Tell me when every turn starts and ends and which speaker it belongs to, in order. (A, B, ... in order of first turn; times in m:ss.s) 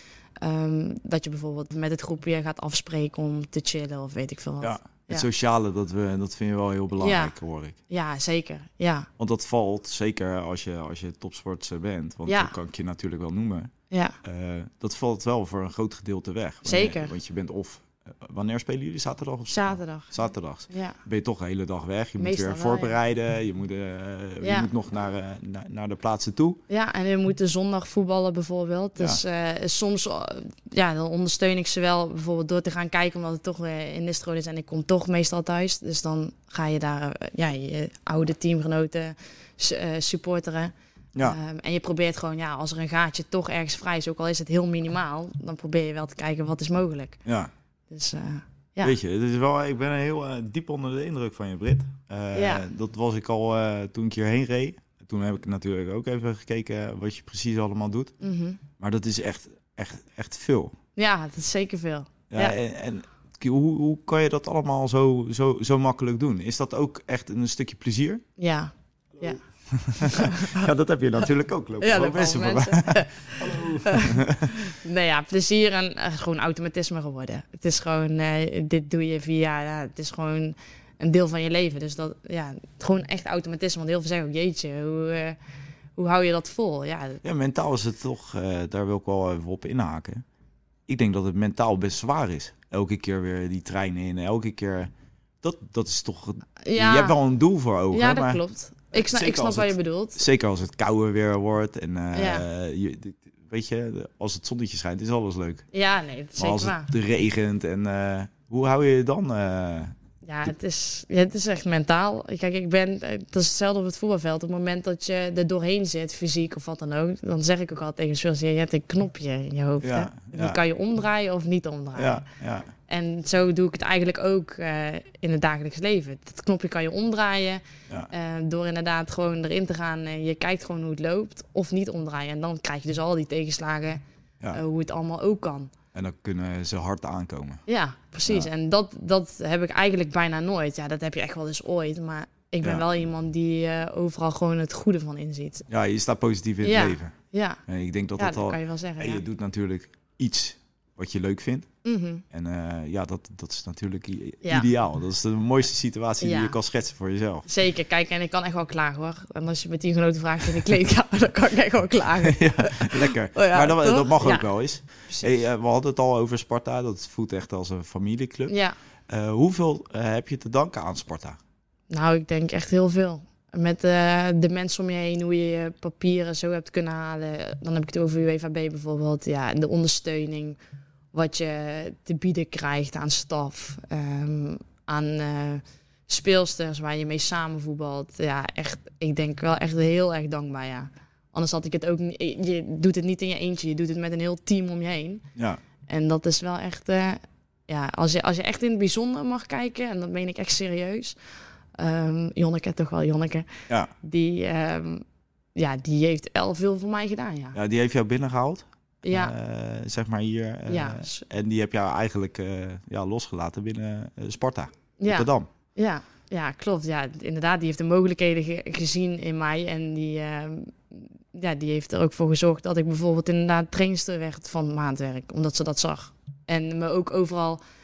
0:00.4-0:05.3 A
0:04.6-0:07.8 B
0:07.0-0:07.3 A
0:07.9-0:09.1 A
0:09.2-0:13.7 B
0:12.3-0:12.5 A
0:13.9-0:14.2 A
0:14.2-0:26.6 B
0:16.6-0:17.1 A
0:19.5-0:20.1 A
0:20.7-0:21.0 A
0:22.2-0:23.0 A
0:24.4-0:24.7 A
0:26.7-0:47.2 A
0:47.9-0:48.9 A
0:48.8-0:58.1 B
0:52.3-0:52.6 A
0:58.2-0:58.6 A
0:58.8-1:00.7 B
1:01.0-1:02.6 A
1:02.3-1:08.2 B
1:08.4-1:09.4 A
1:09.2-1:14.6 B
1:10.0-1:10.7 A
1:11.8-1:25.4 A
1:26.0-1:27.2 A
1:27.2-1:30.2 B
1:30.9-1:34.9 B
1:35.4-1:38.4 B
1:36.6-1:37.2 A
1:37.9-1:40.2 A
1:38.9-1:45.6 B
1:42.1-1:42.4 A
1:45.7-1:46.9 A
1:46.4-1:49.9 B
1:50.2-2:02.2 A
1:59.8-2:00.6 B
2:02.0-2:02.7 B
2:02.9-2:14.0 A
2:14.5-2:15.7 A
2:15.9-2:17.6 B
2:17.7-2:25.6 A
2:25.7-2:27.1 B
2:26.6-2:27.6 A
2:27.7-2:31.7 B
2:28.2-2:29.2 A
2:31.8-2:32.2 A
2:32.3-2:37.5 B
2:36.2-2:36.5 A
2:37.5-2:44.5 A
2:42.2-2:48.5 B
2:48.5-2:48.8 A
2:49.1-2:51.4 B
2:51.9-3:00.6 A
3:01.1-3:15.2 A
3:15.9-3:21.2 A
3:21.8-3:23.5 A
3:24.0-3:25.0 A
3:25.5-3:27.6 A
3:27.5-3:35.5 B
3:29.0-3:29.3 A
3:30.7-3:31.2 A
3:35.0-3:47.6 A